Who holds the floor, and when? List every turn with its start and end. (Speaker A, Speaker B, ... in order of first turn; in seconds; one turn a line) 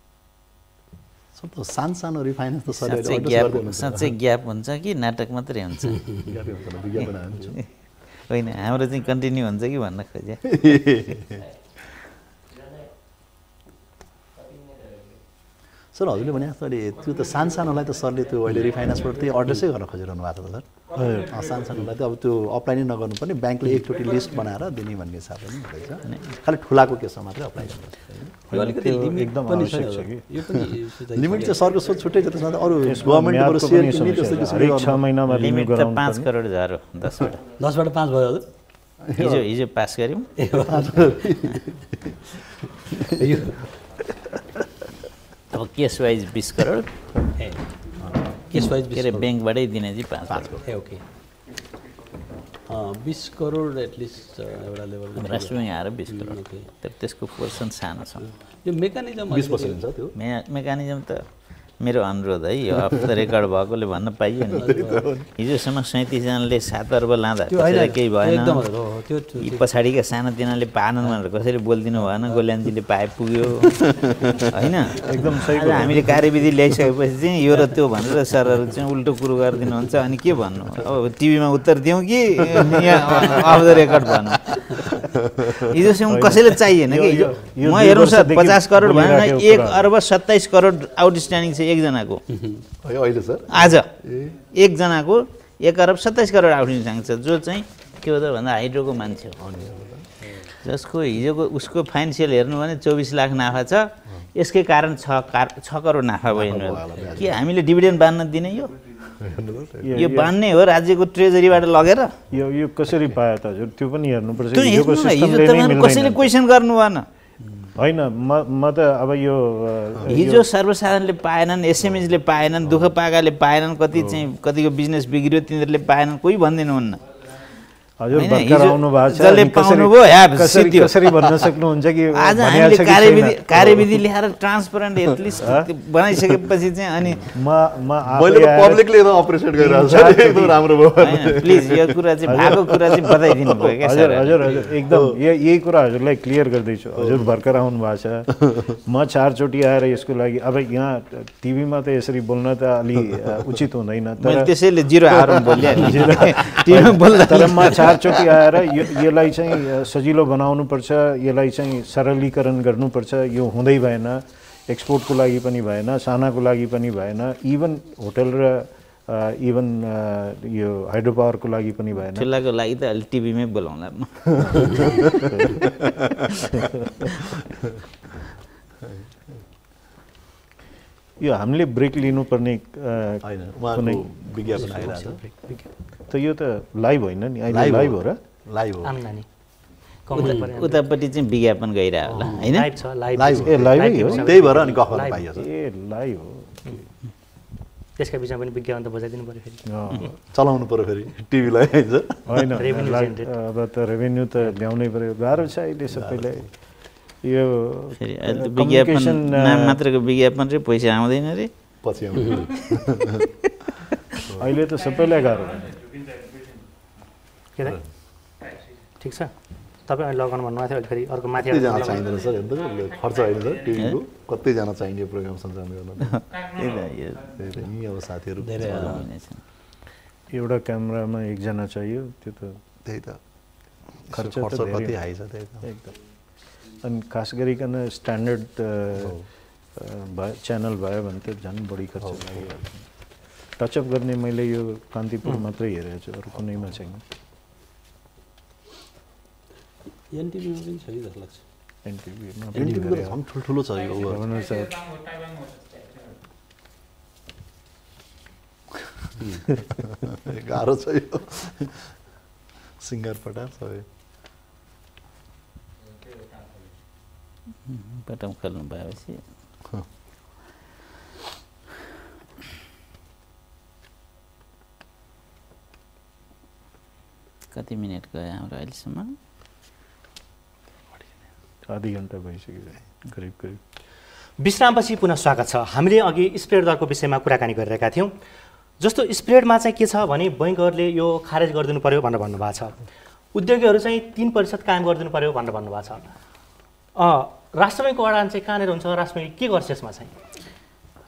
Speaker A: 1.3-4.1
Speaker B: 2.7-6.2
Speaker A: 6.2-7.6
Speaker B: 8.3-10.7
Speaker A: 10.5-11.4
Speaker A: 15.9-28.3
Speaker C: 20.9-21.4
Speaker C: 28.5-30.2
Speaker D: 28.5-31.6
Speaker A: 31.1-35.0
Speaker C: 32.8-36.3
Speaker B: 35.3-37.4
Speaker D: 37.6-38.5
Speaker A: 39.0-39.5
Speaker B: 39.2-40.3
Speaker D: 40.4-41.1
Speaker A: 40.6-42.4
Speaker D: 42.9-43.6
Speaker B: 45.5-46.9
Speaker D: 47.4-47.6
Speaker D: 48.5-49.3
Speaker B: 48.7-50.5
Speaker A: 50.3-50.6
Speaker D: 50.6-51.0
Speaker D: 52.7-56.7
Speaker B: 55.2-58.3
Speaker D: 58.6-59.8
Speaker A: 59.3-60.1
Speaker B: 60.1-61.2
Speaker B: 61.8-64.7
Speaker A: 64.5-65.3
Speaker D: 64.6-65.1
Speaker B: 65.4-68.7
Speaker D: 67.5-69.6
Speaker B: 69.4-73.9
Speaker D: 72.0-72.4
Speaker A: 73.9-74.4
Speaker B: 74.5-92.2
Speaker C: 74.9-76.2
Speaker A: 82.5-85.7
Speaker C: 86.1-89.9
Speaker A: 92.8-94.4
Speaker B: 93.5-93.9
Speaker B: 94.5-99.4
Speaker A: 99.4-100.0
Speaker B: 100.6-108.7
Speaker A: 106.3-107.4
Speaker A: 109.1-110.0
Speaker C: 109.8-110.3
Speaker B: 109.9-112.1
Speaker C: 112.3-116.3
Speaker B: 114.5-117.0
Speaker C: 117.7-120.5
Speaker B: 120.0-127.0
Speaker C: 123.9-124.2
Speaker C: 128.0-134.0
Speaker B: 128.1-131.5
Speaker B: 132.2-137.3
Speaker C: 135.4-135.7
Speaker C: 137.3-139.0
Speaker A: 138.1-143.3
Speaker C: 139.5-140.7
Speaker B: 141.0-144.5
Speaker C: 142.2-142.6
Speaker C: 143.4-154.5
Speaker A: 144.9-145.2
Speaker A: 147.0-147.2
Speaker B: 154.2-158.9
Speaker C: 155.0-172.3
Speaker B: 172.1-175.1
Speaker A: 174.6-176.6
Speaker C: 174.7-176.7
Speaker A: 177.4-177.7
Speaker C: 181.2-184.1
Speaker A: 183.2-185.2
Speaker D: 184.6-185.2
Speaker E: 185.3-185.7
Speaker C: 186.1-188.2
Speaker A: 187.5-188.9
Speaker E: 188.8-189.3
Speaker E: 190.1-190.8
Speaker B: 190.1-192.7
Speaker E: 192.4-195.2
Speaker A: 193.1-195.5
Speaker C: 193.4-194.6
Speaker C: 195.3-196.8
Speaker E: 198.0-199.6
Speaker C: 199.7-200.1
Speaker A: 199.9-202.5
Speaker C: 202.3-206.5
Speaker E: 202.6-203.3
Speaker A: 205.9-206.4
Speaker C: 207.2-209.8
Speaker B: 208.0-211.5
Speaker A: 211.8-213.3
Speaker A: 214.2-214.5
Speaker C: 214.4-215.8
Speaker E: 219.0-219.3
Speaker E: 219.8-222.1
Speaker A: 221.3-226.2
Speaker B: 226.1-227.4
Speaker A: 227.3-229.0
Speaker D: 228.4-229.1
Speaker B: 228.6-229.4
Speaker C: 230.3-232.6
Speaker A: 232.8-233.2
Speaker A: 234.1-235.7
Speaker C: 234.1-235.0
Speaker C: 235.6-235.9
Speaker C: 236.8-239.2
Speaker A: 239.0-239.2
Speaker C: 239.8-242.8
Speaker C: 243.6-247.0
Speaker D: 250.1-251.4
Speaker C: 251.8-253.2
Speaker A: 252.5-254.2
Speaker C: 254.0-254.8
Speaker A: 259.7-261.8
Speaker A: 262.8-263.9
Speaker B: 267.7-269.2
Speaker B: 277.5-279.1
Speaker C: 281.7-283.6
Speaker E: 284.4-288.2
Speaker E: 288.8-292.8
Speaker E: 293.3-296.1
Speaker E: 296.9-300.1